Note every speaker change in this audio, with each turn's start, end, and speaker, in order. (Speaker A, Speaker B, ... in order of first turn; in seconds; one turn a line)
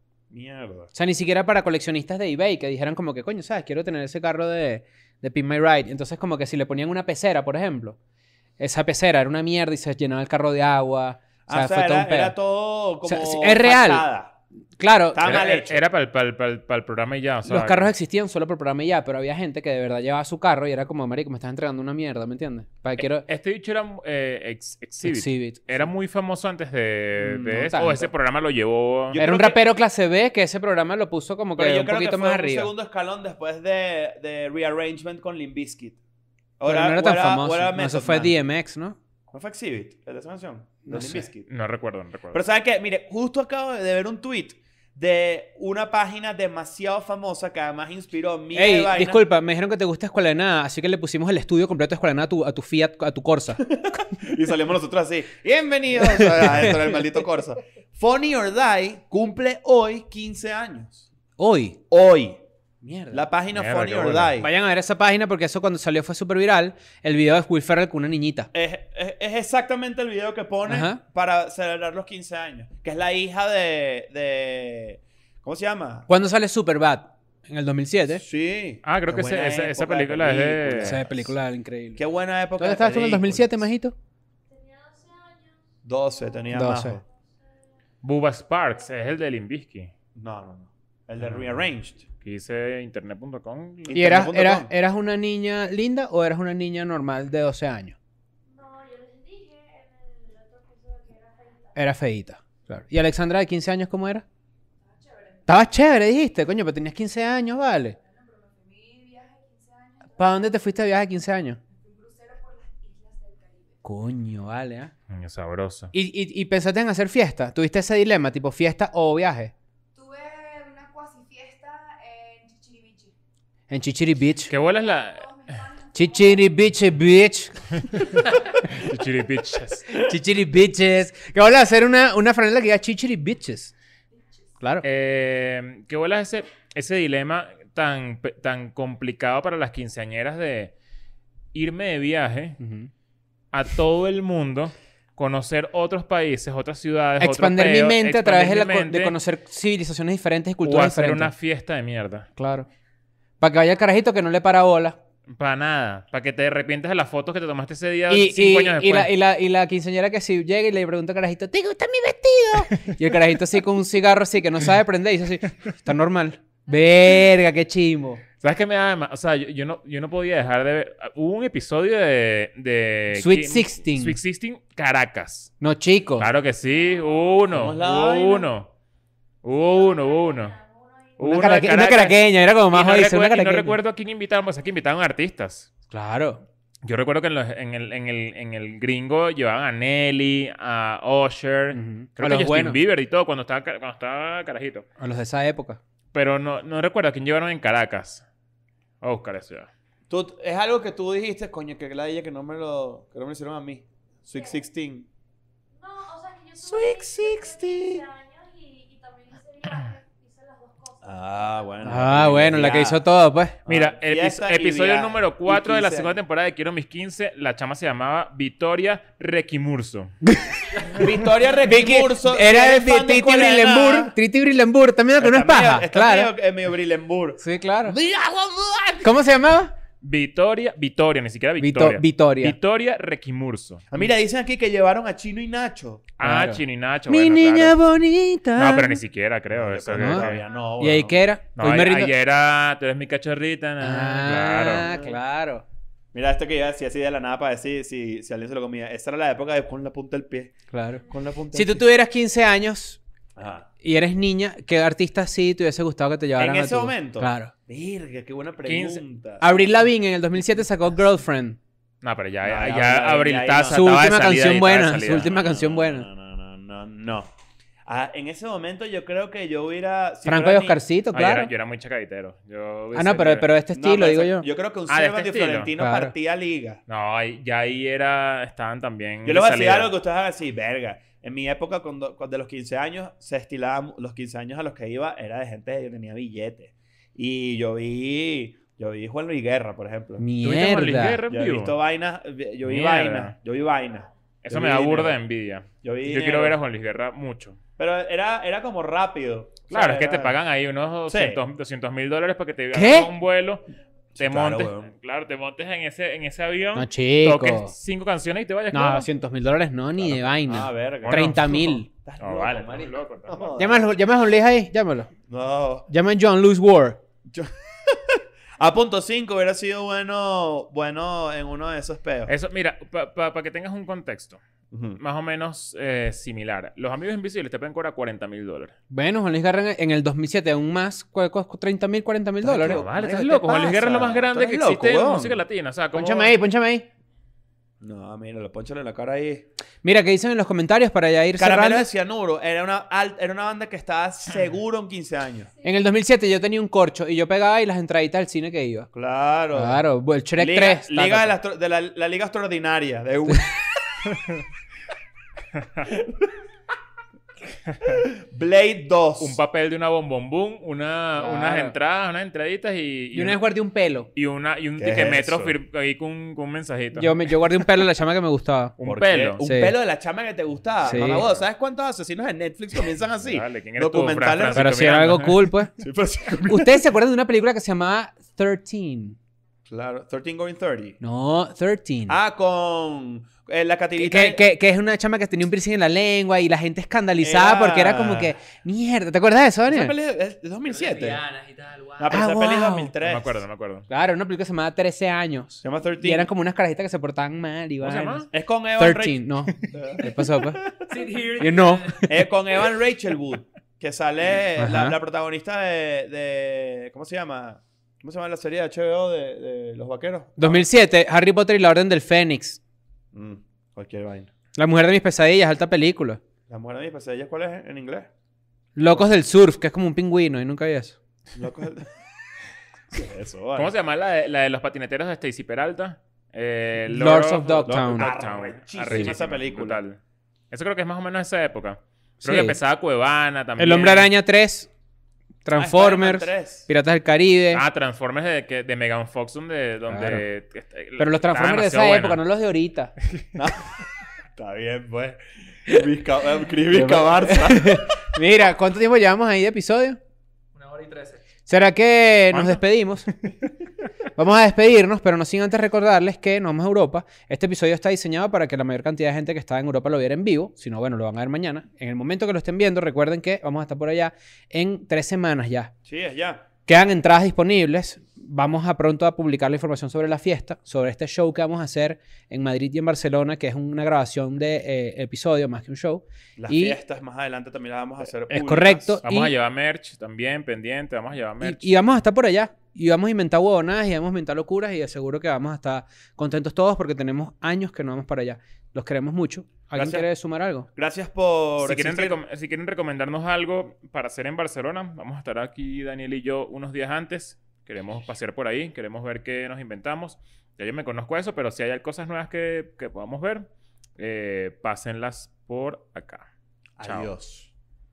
Speaker A: 0.3-0.9
Speaker B: 0.9-8.0
Speaker B: 8.6-12.3
Speaker A: 11.5-14.3
Speaker B: 13.0-14.0
Speaker B: 14.8-15.4
Speaker A: 15.1-15.8
Speaker C: 15.2-17.9
Speaker B: 17.4-23.2
Speaker C: 23.0-29.2
Speaker B: 25.0-25.9
Speaker B: 27.2-28.1
Speaker A: 29.1-29.6
Speaker B: 29.1-32.7
Speaker A: 31.6-36.0
Speaker A: 36.6-38.3
Speaker B: 36.6-39.0
Speaker A: 39.3-41.5
Speaker B: 40.9-41.2
Speaker C: 41.5-42.4
Speaker A: 42.3-49.2
Speaker B: 48.5-53.6
Speaker A: 53.6-61.1
Speaker B: 56.0-57.0
Speaker B: 61.4-61.8
Speaker A: 61.9-62.4
Speaker B: 62.8-63.2
Speaker A: 63.1-64.5
Speaker C: 63.5-64.4
Speaker B: 64.4-68.5
Speaker A: 68.5-76.1
Speaker B: 70.7-71.0
Speaker B: 76.1-78.2
Speaker A: 78.1-81.3
Speaker C: 78.8-81.0
Speaker B: 80.8-82.0
Speaker A: 82.0-83.7
Speaker B: 82.6-84.0
Speaker D: 84.5-87.4
Speaker A: 85.8-87.0
Speaker B: 86.5-87.0
Speaker C: 88.0-89.9
Speaker A: 90.1-92.0
Speaker C: 91.2-91.6
Speaker C: 92.2-94.0
Speaker A: 93.9-94.7
Speaker B: 93.9-98.0
Speaker D: 98.4-101.8
Speaker B: 101.8-104.2
Speaker D: 104.9-105.4
Speaker B: 105.5-108.0
Speaker D: 108.0-110.5
Speaker B: 110.2-111.6
Speaker D: 111.7-113.8
Speaker B: 113.8-114.9
Speaker C: 115.1-115.9
Speaker B: 115.9-119.5
Speaker D: 119.9-123.1
Speaker B: 123.7-124.5
Speaker C: 124.5-125.6
Speaker D: 124.7-126.5
Speaker B: 125.9-128.0
Speaker C: 127.8-130.0
Speaker B: 129.9-133.7
Speaker B: 134.6-134.8
Speaker C: 134.8-140.7
Speaker C: 141.5-142.6
Speaker B: 142.6-142.9
Speaker C: 143.5-149.2
Speaker B: 147.2-151.3
Speaker C: 150.6-152.3
Speaker B: 152.4-152.7
Speaker B: 153.4-155.0
Speaker C: 155.3-159.1
Speaker B: 158.1-168.2
Speaker C: 168.4-175.5
Speaker B: 173.1-174.2
Speaker B: 175.6-176.3
Speaker C: 176.2-178.7
Speaker D: 176.8-177.4
Speaker A: 177.5-178.5
Speaker C: 179.4-180.5
Speaker D: 179.4-181.4
Speaker C: 181.2-185.7
Speaker B: 181.2-183.8
Speaker B: 185.9-186.4
Speaker C: 186.8-194.8
Speaker B: 191.7-192.8
Speaker B: 195.0-195.8
Speaker C: 196.1-198.2
Speaker C: 199.0-199.7
Speaker A: 200.1-205.1
Speaker D: 204.3-204.6
Speaker D: 205.7-211.9
Speaker A: 206.6-208.0
Speaker A: 211.0-213.0
Speaker B: 211.8-213.6
Speaker A: 213.7-216.2
Speaker C: 213.7-220.1
Speaker B: 220.2-226.3
Speaker A: 220.9-224.1
Speaker A: 225.2-229.1
Speaker B: 227.4-227.9
Speaker B: 229.0-229.7
Speaker C: 230.0-233.8
Speaker B: 231.6-232.6
Speaker A: 233.9-236.1
Speaker C: 236.2-237.8
Speaker B: 236.2-239.0
Speaker C: 238.5-240.4
Speaker A: 239.5-241.2
Speaker B: 239.9-242.1
Speaker C: 241.6-244.9
Speaker B: 243.8-245.6
Speaker A: 244.8-245.2
Speaker A: 246.1-250.5
Speaker B: 250.7-251.0
Speaker A: 251.1-251.8
Speaker B: 251.5-253.0
Speaker A: 253.3-253.7
Speaker B: 253.8-257.5
Speaker A: 256.4-259.5
Speaker C: 258.6-259.0
Speaker B: 259.4-261.6
Speaker C: 262.0-265.3
Speaker A: 262.4-263.9
Speaker B: 263.7-266.1
Speaker A: 265.2-267.3
Speaker A: 267.9-270.8
Speaker B: 270.2-271.5
Speaker C: 271.1-273.5
Speaker B: 272.9-274.5
Speaker A: 273.7-276.8
Speaker C: 274.9-275.7
Speaker B: 275.8-276.1
Speaker C: 276.9-279.9
Speaker A: 279.2-290.2
Speaker B: 290.2-291.2
Speaker C: 290.4-291.8
Speaker A: 291.3-295.2
Speaker C: 292.6-293.3
Speaker C: 294.4-297.6
Speaker A: 295.8-296.6
Speaker A: 297.8-300.3
Speaker C: 299.7-309.1
Speaker A: 301.1-301.4
Speaker B: 302.7-303.1
Speaker A: 304.1-304.9
Speaker B: 306.7-307.7
Speaker B: 308.7-311.9
Speaker A: 310.0-313.9
Speaker C: 311.0-311.5
Speaker C: 312.2-313.6
Speaker B: 313.6-315.1
Speaker A: 315.3-315.9
Speaker B: 315.9-317.0
Speaker A: 317.3-322.3
Speaker C: 322.3-324.4
Speaker A: 324.7-325.0
Speaker C: 325.0-328.7
Speaker B: 328.9-332.8
Speaker A: 332.4-335.4
Speaker C: 332.6-336.3
Speaker B: 335.9-336.9
Speaker A: 337.8-339.5
Speaker B: 339.8-341.9
Speaker A: 341.4-345.5
Speaker B: 345.6-348.9
Speaker A: 348.9-349.8
Speaker B: 349.5-351.3
Speaker A: 350.4-354.0
Speaker C: 354.1-354.4
Speaker C: 355.6-355.9
Speaker A: 355.9-356.3
Speaker A: 357.9-359.4
Speaker C: 359.2-363.4
Speaker B: 361.2-361.7
Speaker A: 361.2-361.7
Speaker B: 363.1-364.1
Speaker C: 364.1-367.2
Speaker A: 364.8-365.6
Speaker B: 366.9-368.7
Speaker C: 368.8-369.4
Speaker A: 368.8-374.8
Speaker B: 369.4-369.8
Speaker B: 370.8-371.3
Speaker C: 371.0-371.4
Speaker C: 373.2-375.5
Speaker B: 374.5-375.8
Speaker A: 375.8-376.8
Speaker B: 376.4-379.2
Speaker A: 379.7-381.0
Speaker B: 381.0-382.2
Speaker A: 382.1-384.4
Speaker B: 384.0-389.9
Speaker A: 387.2-388.3
Speaker A: 389.6-391.2
Speaker E: 390.6-392.3
Speaker A: 392.0-393.4
Speaker B: 392.1-392.9
Speaker C: 393.0-393.9
Speaker B: 393.9-400.7
Speaker A: 395.6-396.3
Speaker C: 397.8-398.3
Speaker A: 398.3-400.9
Speaker E: 400.9-402.1
Speaker B: 401.4-402.2
Speaker A: 402.1-410.6
Speaker B: 404.6-404.9
Speaker B: 410.4-412.6
Speaker A: 413.1-414.3
Speaker B: 414.5-416.2
Speaker A: 416.5-418.1
Speaker B: 418.8-421.0
Speaker A: 421.3-421.9
Speaker A: 422.9-423.7
Speaker C: 423.6-430.0
Speaker B: 426.9-428.1
Speaker A: 427.6-429.8
Speaker B: 428.9-429.1
Speaker C: 430.5-434.1
Speaker B: 432.2-432.6
Speaker B: 433.6-434.7
Speaker B: 435.4-437.6
Speaker A: 435.5-436.7
Speaker C: 437.5-442.2
Speaker B: 439.9-440.2
Speaker B: 441.0-442.9
Speaker A: 443.3-443.8
Speaker A: 444.3-448.1
Speaker B: 446.7-450.0
Speaker E: 450.5-451.3
Speaker B: 451.5-453.1
Speaker B: 454.1-465.7
Speaker A: 465.9-466.4
Speaker B: 466.7-476.8
Speaker A: 476.4-479.0
Speaker B: 478.3-479.3
Speaker C: 479.0-481.7
Speaker B: 481.4-490.7
Speaker A: 489.7-490.1
Speaker A: 490.7-492.2
Speaker C: 491.6-506.3
Speaker A: 506.8-507.5
Speaker C: 506.8-507.1